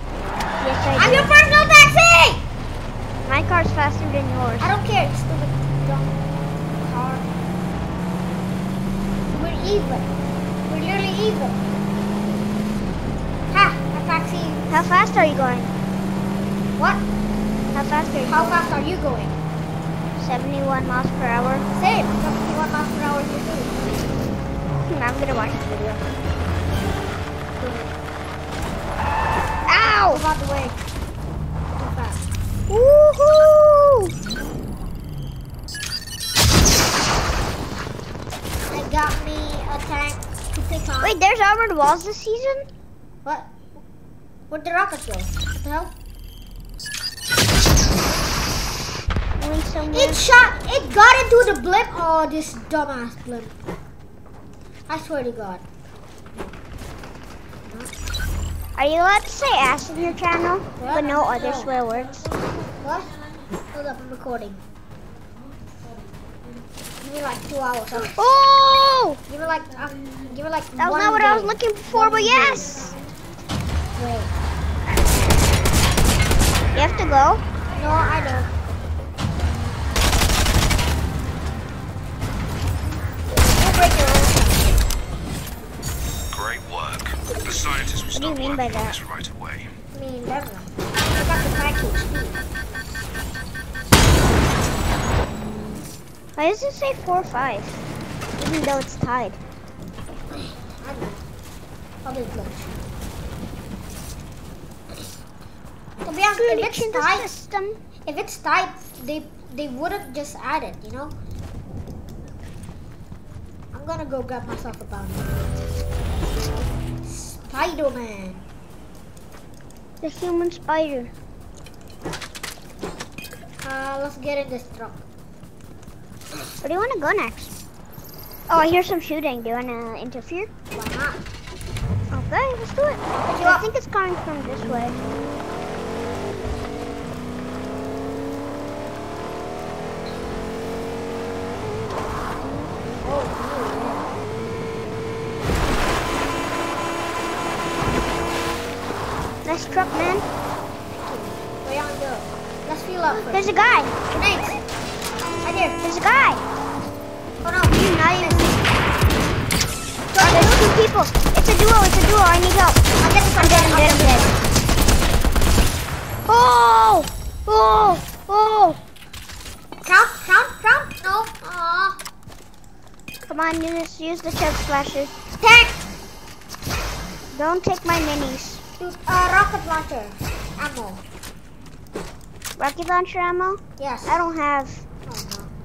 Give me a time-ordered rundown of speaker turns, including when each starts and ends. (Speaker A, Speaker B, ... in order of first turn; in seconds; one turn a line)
Speaker A: 0.6-1.3
Speaker B: 1.0-2.4
Speaker A: 3.2-4.7
Speaker B: 4.6-7.3
Speaker B: 9.3-10.1
Speaker B: 10.7-11.6
Speaker B: 13.5-14.8
Speaker A: 14.7-15.7
Speaker B: 16.8-17.0
Speaker A: 17.7-18.6
Speaker B: 18.2-19.4
Speaker A: 20.2-21.6
Speaker B: 21.7-23.8
Speaker A: 24.8-26.0
Speaker B: 27.6-27.9
Speaker A: 29.7-30.2
Speaker B: 30.1-30.8
Speaker B: 31.8-32.2
Speaker A: 32.7-34.1
Speaker B: 38.7-41.2
Speaker A: 41.0-42.7
Speaker B: 44.5-45.9
Speaker A: 49.4-50.2
Speaker B: 49.9-53.5
Speaker B: 54.9-55.6
Speaker B: 57.6-57.9
Speaker A: 58.8-62.2
Speaker B: 60.8-61.7
Speaker B: 62.8-63.1
Speaker B: 63.7-64.6
Speaker B: 67.0-68.3
Speaker A: 68.1-69.2
Speaker B: 69.3-73.1
Speaker A: 70.8-72.9
Speaker B: 73.9-74.4
Speaker A: 76.7-77.4
Speaker B: 77.7-78.5
Speaker B: 83.5-84.8
Speaker C: 86.3-88.1
Speaker A: 88.1-89.0
Speaker C: 89.1-89.6
Speaker B: 89.9-92.4
Speaker A: 96.4-97.8
Speaker A: 98.4-99.4
Speaker B: 100.3-101.2
Speaker B: 102.0-102.7
Speaker B: 106.0-107.3
Speaker A: 106.3-107.8
Speaker B: 108.0-111.1
Speaker B: 113.7-115.4
Speaker B: 117.0-118.4
Speaker A: 120.0-121.1
Speaker B: 123.6-125.0
Speaker A: 126.6-127.5
Speaker A: 128.5-130.5
Speaker B: 130.7-131.2
Speaker A: 132.1-135.0
Speaker B: 133.1-133.6
Speaker B: 143.0-144.2
Speaker A: 149.4-150.2
Speaker B: 150.9-153.5
Speaker A: 153.1-153.9
Speaker B: 154.1-154.6
Speaker B: 155.4-155.8
Speaker A: 155.8-156.4
Speaker B: 157.4-158.6
Speaker A: 157.7-158.6
Speaker B: 160.1-160.7
Speaker A: 160.2-162.8
Speaker B: 163.0-164.3
Speaker A: 163.4-164.3
Speaker A: 166.3-168.8
Speaker B: 169.8-172.0
Speaker A: 173.3-175.1
Speaker B: 175.4-175.8
Speaker A: 177.3-178.6
Speaker B: 178.8-181.0
Speaker A: 182.6-184.8
Speaker B: 183.8-184.2
Speaker B: 185.1-185.5